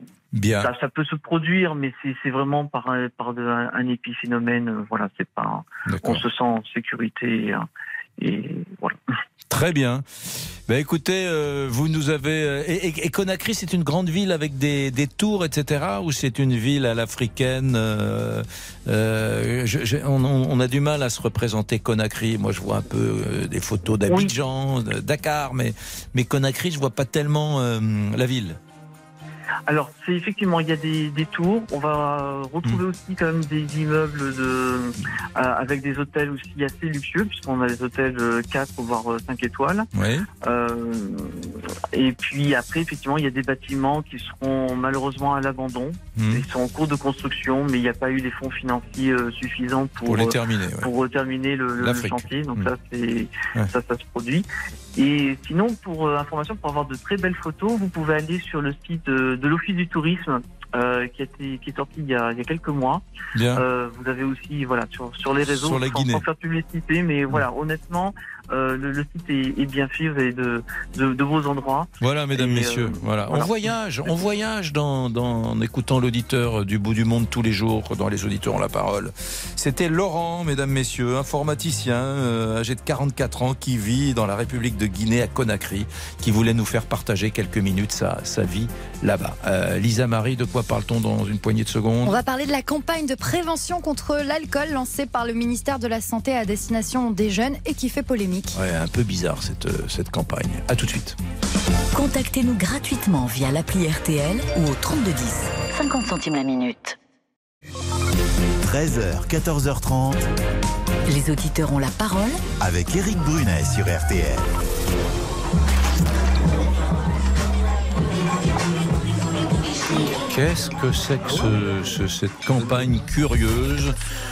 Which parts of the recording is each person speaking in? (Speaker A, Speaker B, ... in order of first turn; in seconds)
Speaker A: 0.3-0.7, 5.8-6.2, 9.5-10.0, 10.7-28.6, 39.9-40.3, 46.1-46.4, 50.0-50.9, 51.8-52.7, 63.3-63.6, 65.5-66.2, 72.0-92.2, 98.5-101.2, 120.2-124.0
Speaker B: 0.6-7.7, 8.2-9.0, 29.7-39.9, 40.4-74.2
Speaker C: 92.0-98.6
Speaker D: 101.9-107.0, 111.1-112.4
Speaker E: 108.6-110.3, 112.6-114.5